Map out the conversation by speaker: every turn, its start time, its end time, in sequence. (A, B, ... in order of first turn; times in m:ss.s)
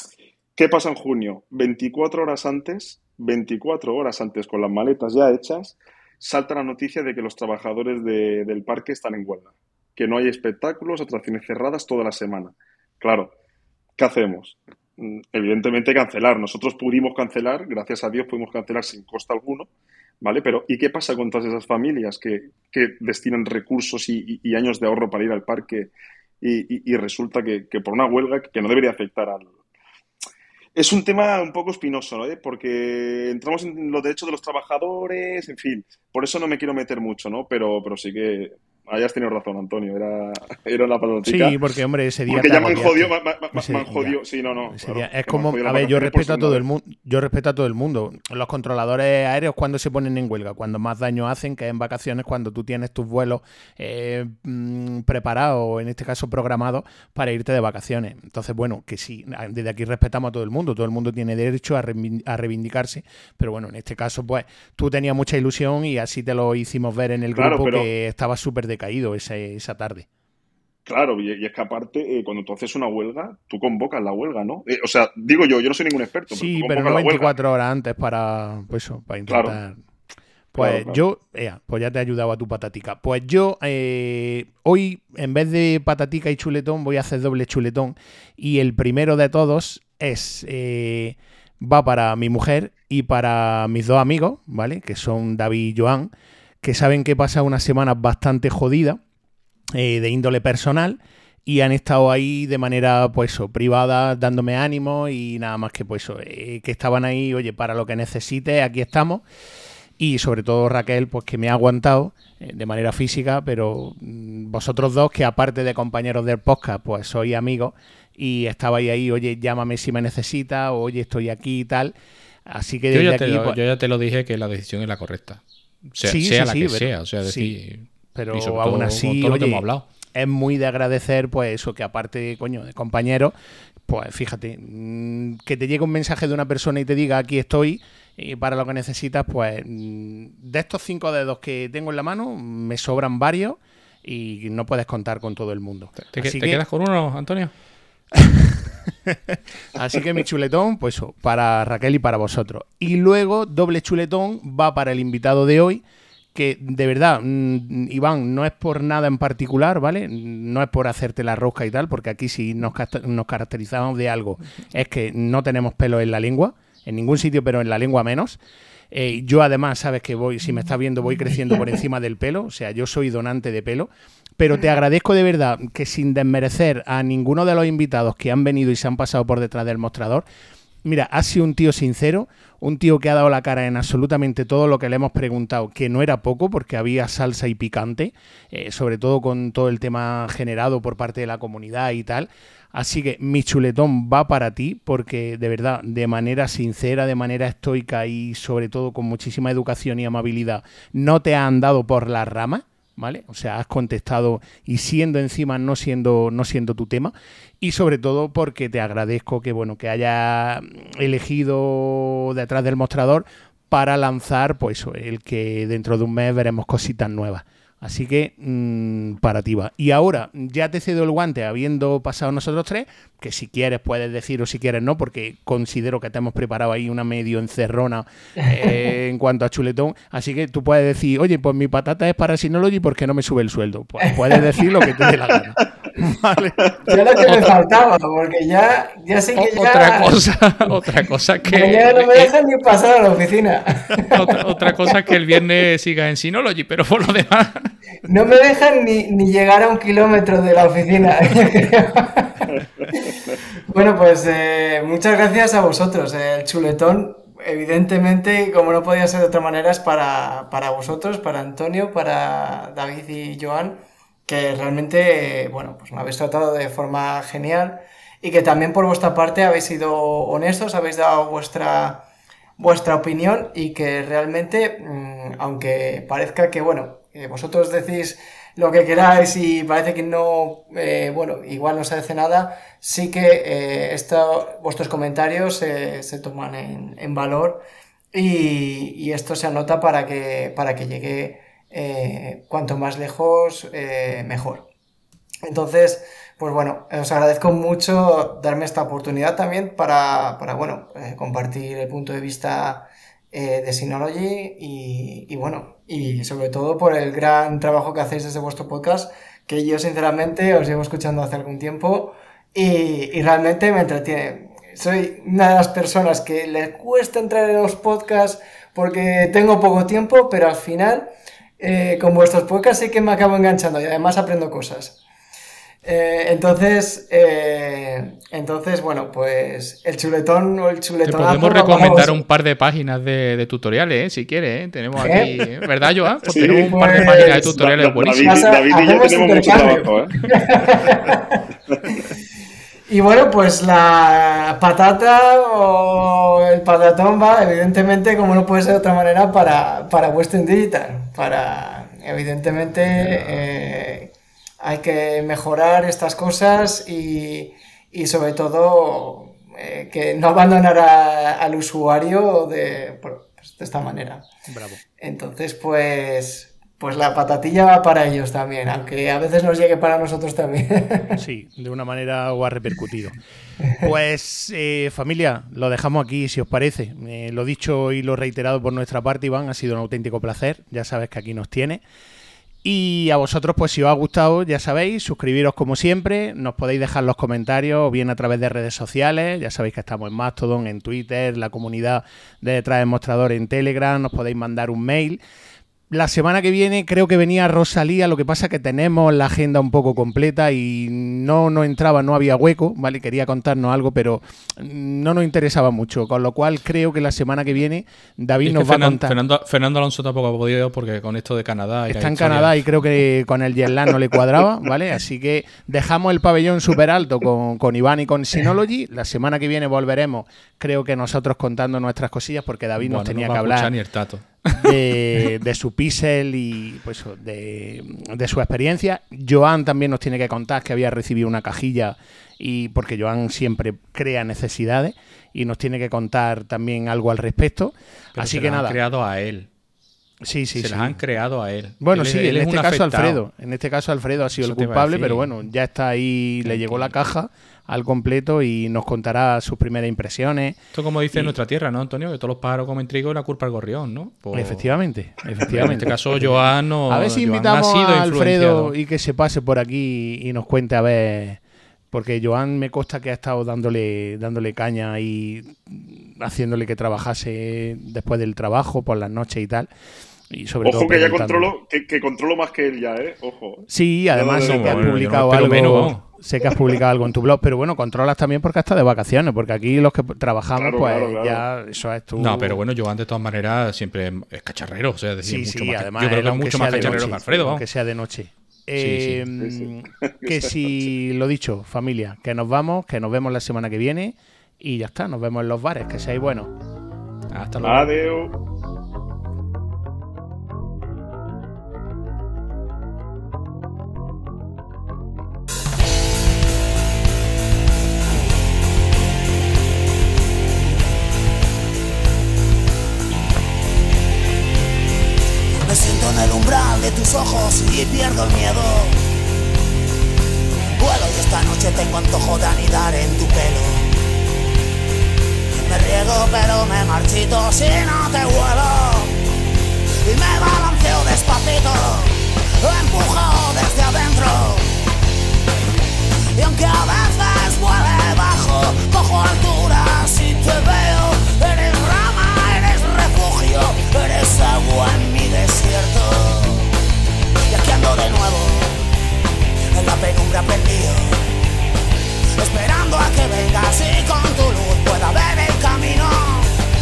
0:00.6-0:13.3 A
0:14.0-0:19.7 A
0:20.2-0:29.5 A
0:30.8-0:41.6 A
0:41.2-0:44.2 B
0:42.3-0:46.6 A
0:44.7-1:10.1 B
1:07.4-1:07.9 A
1:10.9-1:17.3 A
1:16.3-1:19.8 B
1:19.3-1:19.6 A
1:20.5-1:39.0 B
1:20.6-1:21.0 A
1:39.8-1:49.2 B
1:50.0-2:01.9 B
2:02.5-2:03.6 B
2:02.9-2:09.9 C
2:06.0-2:07.5 B
2:08.1-2:13.3 B
2:13.9-2:26.6 B
2:26.1-2:27.5 C
2:29.1-2:35.8 B
2:36.3-2:48.4 B
2:48.9-3:00.2 B
3:00.8-3:56.7 B
3:48.4-3:48.8 D
3:54.0-3:54.4 D
3:56.9-4:00.3 D
3:59.4-4:02.3 C
4:01.4-4:04.9 D
4:04.0-4:07.7 C
4:08.0-4:12.6 D
4:13.7-4:32.1 D
4:32.6-4:54.7 D
4:55.4-5:25.0 D
5:25.8-5:32.2 D
5:31.0-5:38.4 C
5:35.0-5:35.4 D
5:36.3-5:40.3 A
5:36.4-5:42.0 D
5:42.9-6:04.3 D
6:04.5-6:04.8 B
6:05.0-6:11.2 D
6:11.2-6:13.2 B
6:13.8-6:21.8 B
6:22.6-6:35.2 B
6:35.9-6:49.2 B
6:48.4-6:52.6 C
6:51.9-7:03.7 B
7:02.8-7:05.3 C
7:04.6-7:18.8 B
7:18.2-7:19.5 C
7:20.2-7:21.0 B
7:20.6-7:23.2 C
7:21.8-7:30.6 B
7:24.4-7:25.3 C
7:26.4-7:27.0 C
7:30.7-7:38.8 C
7:34.3-7:41.4 B
7:41.9-7:49.7 B
7:50.3-7:51.5 B
7:50.6-7:55.0 A
7:53.7-8:02.6 B
7:54.4-7:56.0 C
8:00.6-8:01.4 A
8:02.2-8:07.6 C
8:05.2-8:16.5 B
8:08.8-8:09.2 C
8:09.4-8:10.7 A
8:17.3-8:17.9 C
8:17.6-8:18.3 A
8:35.6-8:39.0 E
8:40.8-8:43.9 E
8:45.6-8:49.2 E
8:50.0-8:54.7 E
8:56.4-9:06.7 E
9:07.5-9:08.8 E
9:09.7-9:11.2 E
9:12.4-9:16.5 E